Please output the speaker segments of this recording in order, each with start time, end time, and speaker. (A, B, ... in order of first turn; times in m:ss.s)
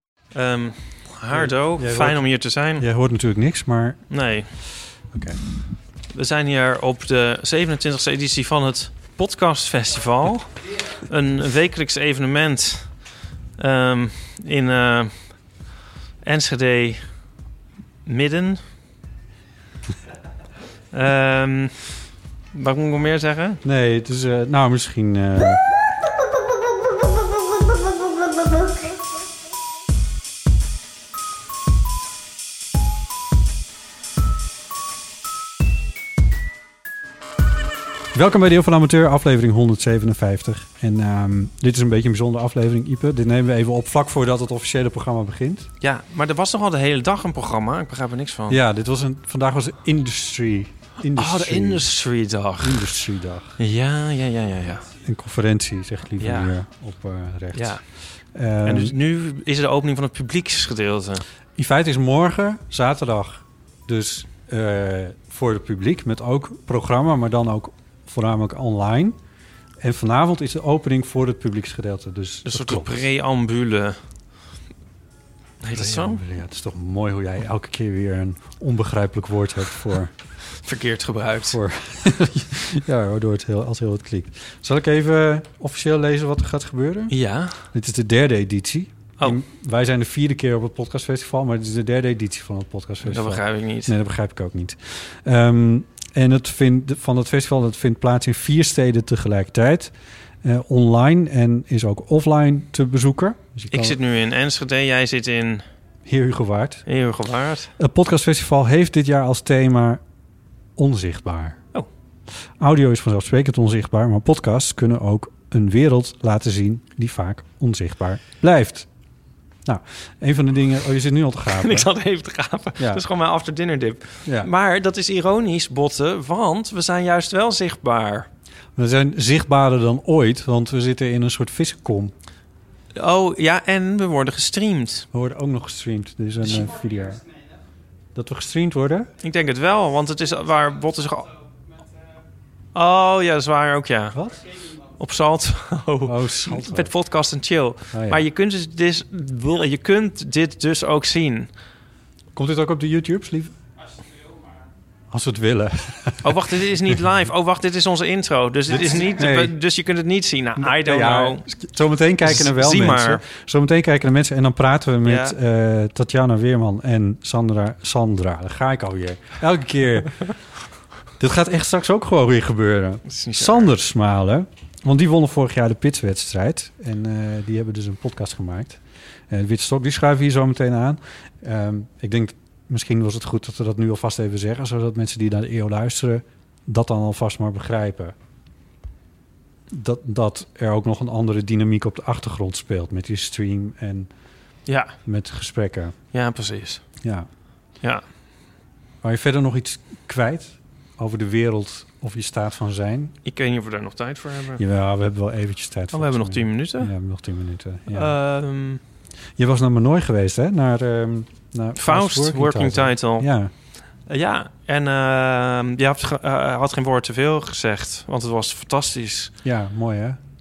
0:00.3-0:02.9 A
0:01.3-0:02.2 B
0:02.8-0:04.0 B
0:04.1-0:04.5 A
0:05.1-0:05.4 B
0:06.1-0:15.6 A
0:16.2-0:17.3 A
0:18.0-0:18.6 A
0:20.9-0:22.0 A
0:22.5-0:23.6 A
0:23.6-0:25.6 B
0:38.1-0:45.7 B
0:45.8-0:48.6 A
0:48.5-0:51.8 B
0:51.1-0:52.9 A
0:52.6-0:53.6 B
0:53.6-0:54.9 A
0:55.0-0:59.0 B
0:56.2-0:56.5 A
0:57.5-0:57.9 A
0:58.6-1:01.2 A
1:01.6-1:09.2 B
1:09.8-1:13.0 B
1:12.4-1:14.0 A
1:15.6-1:16.2 A
1:15.8-1:20.1 B
1:20.6-1:21.6 A
1:21.5-1:44.0 B
1:27.1-1:27.6 A
1:33.0-1:34.0 A
1:43.7-1:45.6 A
1:46.1-1:46.8 B
1:46.9-1:47.7 A
1:47.8-1:50.0 B
1:50.8-1:51.6 B
1:52.6-1:58.9 B
1:59.6-2:01.9 B
2:01.5-2:08.3 A
2:02.8-2:03.0 B
2:08.8-2:12.1 B
2:12.9-2:15.1 A
2:15.1-2:17.3 B
2:18.2-2:19.1 B
2:19.2-2:21.3 A
2:22.7-2:31.5 A
2:24.1-2:24.4 B
2:26.0-2:26.9 B
2:27.9-2:28.2 B
2:32.3-2:33.5 B
2:35.1-2:36.4 B
2:36.2-2:41.5 A
2:38.7-2:39.6 B
2:40.6-2:50.3 B
2:42.2-2:43.2 A
2:45.0-2:45.3 A
2:51.2-3:08.2 B
2:53.1-2:53.7 A
3:09.7-3:14.1 B
3:14.7-3:14.9 A
3:15.0-3:16.0 B
3:16.1-3:17.0 A
3:17.0-3:17.3 B
3:19.0-3:23.1 B
3:23.2-3:24.6 A
3:24.6-3:28.1 B
3:25.9-3:26.9 A
3:27.9-3:28.8 A
3:29.4-3:33.5 B
3:31.8-3:33.3 A
3:34.1-3:39.3 A
3:39.4-3:40.2 B